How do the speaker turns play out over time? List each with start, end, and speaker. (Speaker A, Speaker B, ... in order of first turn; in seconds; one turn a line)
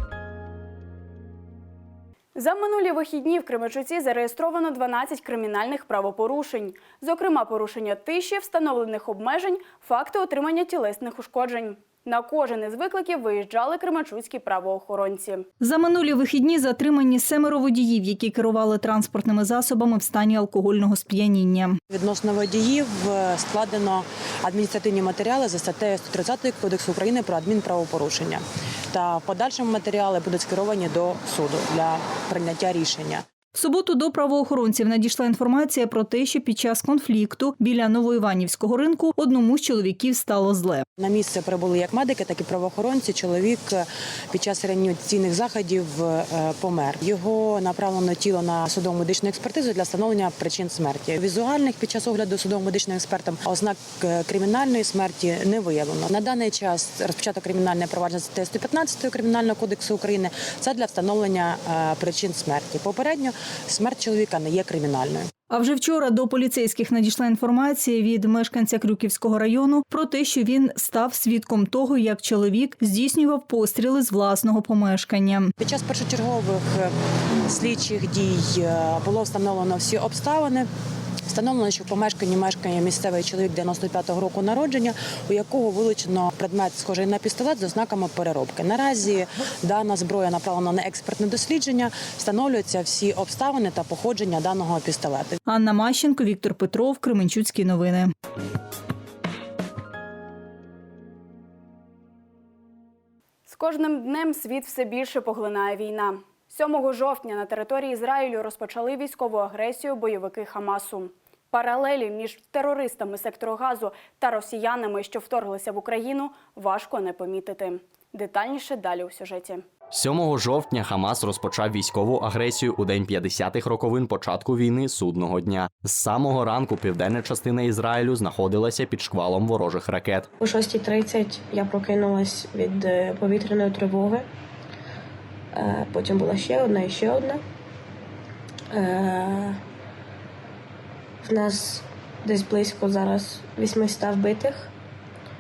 Speaker A: 2.3-15.4
Speaker B: 15.6-21.8
Speaker C: 21.9-33.2
Speaker B: 33.5-40.8
Speaker C: 41.0-65.3
Speaker B: 65.5-75.5
Speaker C: 75.6-76.9
Speaker C: 77.5-80.7
Speaker C: 81.3-95.4
Speaker B: 95.4-98.1
Speaker A: 103.5-119.6
Speaker D: 119.9-130.3
Speaker E: 130.4-134.2
Speaker E: 135.5-137.4
Speaker E: 138.7-139.6
Speaker E: 141.2-144.7